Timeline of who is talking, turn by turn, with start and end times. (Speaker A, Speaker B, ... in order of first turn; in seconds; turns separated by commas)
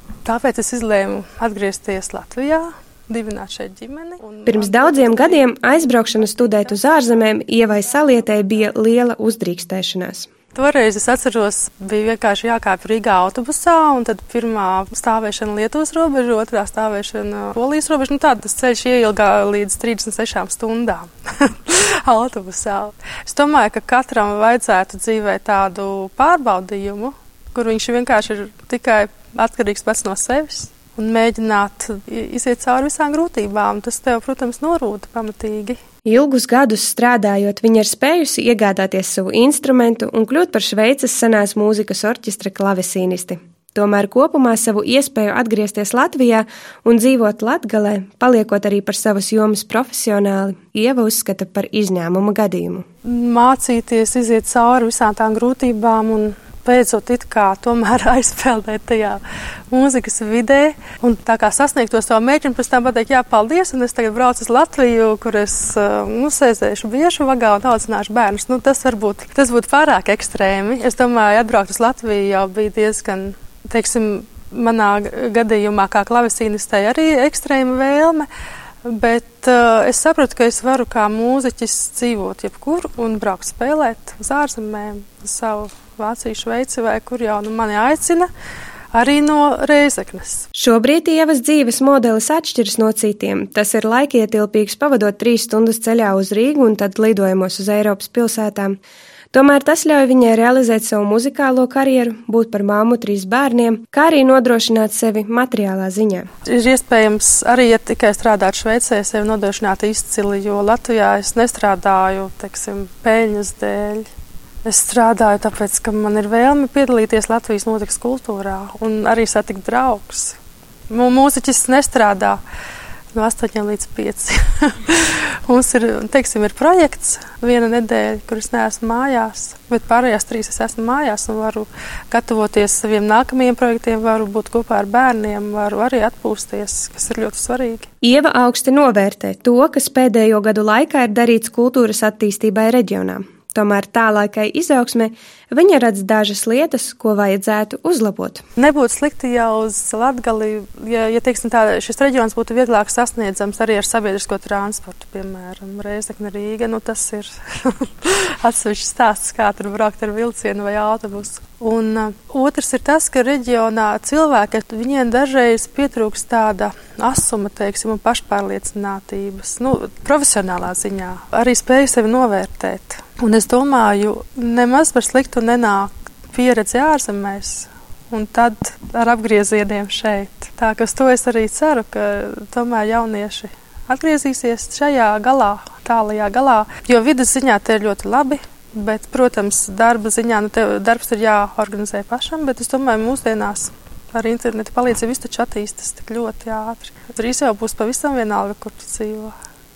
Speaker A: 0.2-8.7, Speaker B: 4.5-10.3, Speaker A: 10.5-35.8, Speaker B: 36.0-52.9, Speaker A: 53.0-78.3, Speaker A: 78.8-88.3, Speaker A: 88.9-90.4, Speaker B: 90.5-98.8, Speaker B: 99.3-106.3, Speaker A: 106.5-114.0, Speaker A: 114.7-120.4, Speaker A: 120.9-122.4, Speaker A: 123.1-137.9, Speaker B: 138.0-148.4, Speaker A: 148.6-199.3